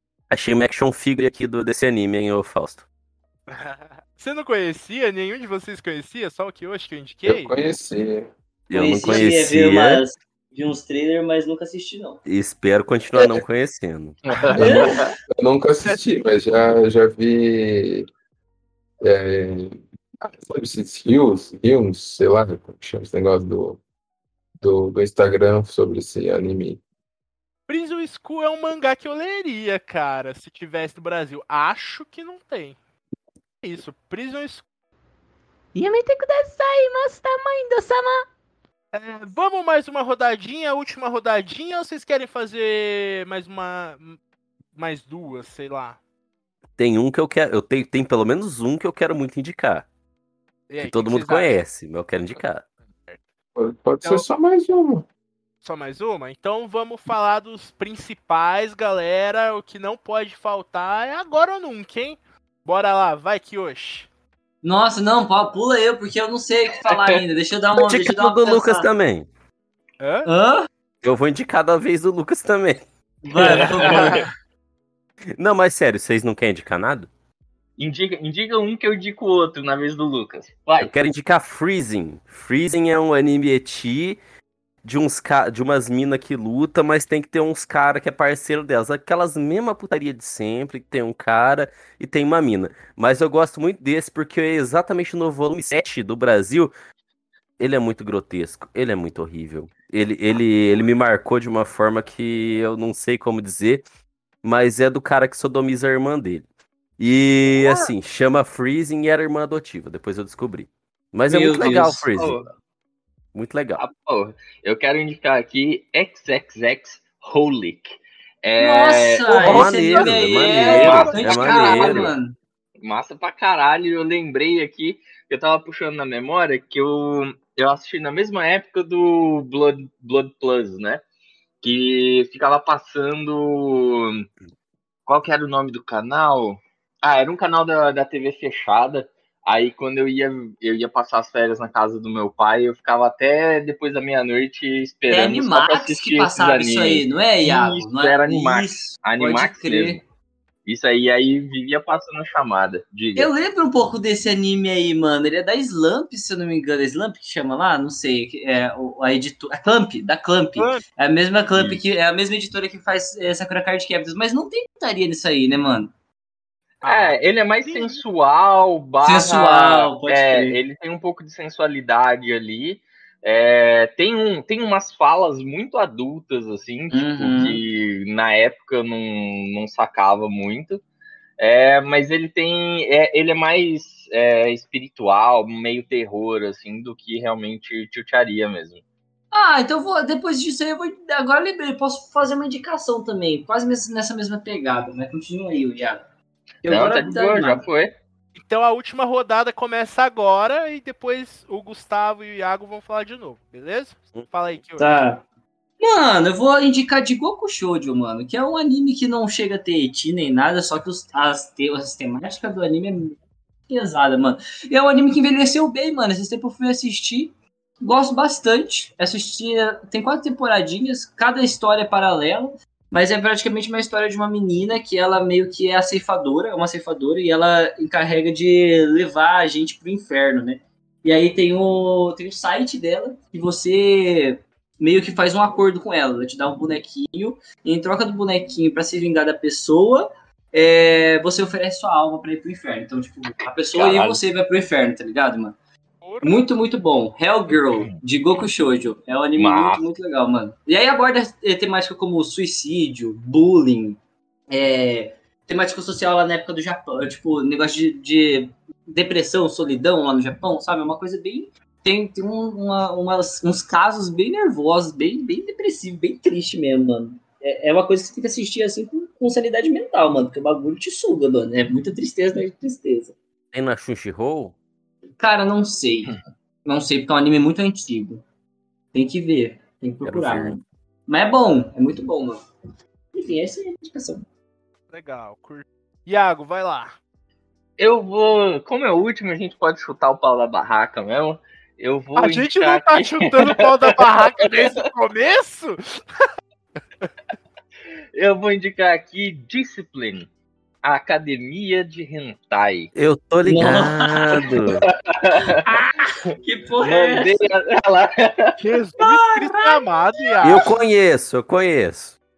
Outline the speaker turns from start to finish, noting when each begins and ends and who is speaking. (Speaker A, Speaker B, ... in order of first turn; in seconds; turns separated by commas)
Speaker A: 0.3-2.9, Speaker B: 3.5-7.5, Speaker C: 7.3-8.3, Speaker A: 8.7-10.0, Speaker D: 8.7-12.2, Speaker A: 12.3-14.2, Speaker E: 14.3-15.1, Speaker C: 14.6-18.1, Speaker C: 19.0-23.8, Speaker C: 24.6-26.8, Speaker B: 27.7-32.8, Speaker B: 33.6-34.6, Speaker F: 35.8-38.2, Speaker B: 38.9-44.2, Speaker B: 44.8-46.0, Speaker A: 46.8-49.9, Speaker B: 50.7-51.6, Speaker A: 50.8-52.6, Speaker C: 53.5-55.1, Speaker B: 55.6-64.1, Speaker D: 64.6-68.9, Speaker E: 66.9-67.2, Speaker A: 67.8-69.3, Speaker B: 70.0-70.3, Speaker D: 70.3-70.7, Speaker A: 71.0-72.8, Speaker D: 73.2-74.3, Speaker E: 73.4-74.0, Speaker A: 75.4-77.1, Speaker E: 77.8-80.9, Speaker A: 80.8-84.2, Speaker A: 84.8-96.7, Speaker A: 97.6-103.8, Speaker A: 104.4-106.5, Speaker A: 107.0-112.4, Speaker D: 111.3-112.1, Speaker E: 111.7-112.5, Speaker A: 113.3-113.8, Speaker E: 113.8-122.1, Speaker D: 118.6-122.4, Speaker A: 119.3-122.1, Speaker B: 120.8-121.2, Speaker E: 122.8-131.0, Speaker E: 131.6-134.3, Speaker E: 135.1-150.0, Speaker D: 145.1-150.0, Speaker E: 150.7-153.3, Speaker D: 153.2-165.9, Speaker B: 160.6-160.8, Speaker E: 161.5-161.8, Speaker B: 166.8-168.0, Speaker E: 166.8-180.8, Speaker D: 169.0-170.6, Speaker D: 176.9-177.6, Speaker E: 181.4-188.8, Speaker D: 189.3-196.0, Speaker D: 196.6-197.7, Speaker E: 196.7-197.9, Speaker B: 198.3-205.0, Speaker D: 204.8-205.2, Speaker D: 205.8-213.2, Speaker D: 213.7-245.6, Speaker E: 243.7-244.2, Speaker B: 246.0-246.5, Speaker D: 246.2-254.0, Speaker E: 247.7-248.0, Speaker E: 249.4-249.9, Speaker D: 254.5-273.2, Speaker A: 273.5-274.6, Speaker D: 275.2-278.2, Speaker D: 278.9-282.4, Speaker A: 280.0-280.6, Speaker D: 283.1-284.3, Speaker B: 284.9-286.9, Speaker E: 287.8-293.5, Speaker B: 292.2-296.2, Speaker E: 298.1-300.3, Speaker E: 300.8-302.9, Speaker A: 302.9-304.8, Speaker D: 303.4-304.8, Speaker E: 304.9-305.6, Speaker D: 305.4-307.4, Speaker E: 306.8-308.5, Speaker B: 308.6-310.7, Speaker D: 309.0-310.7, Speaker A: 310.4-312.2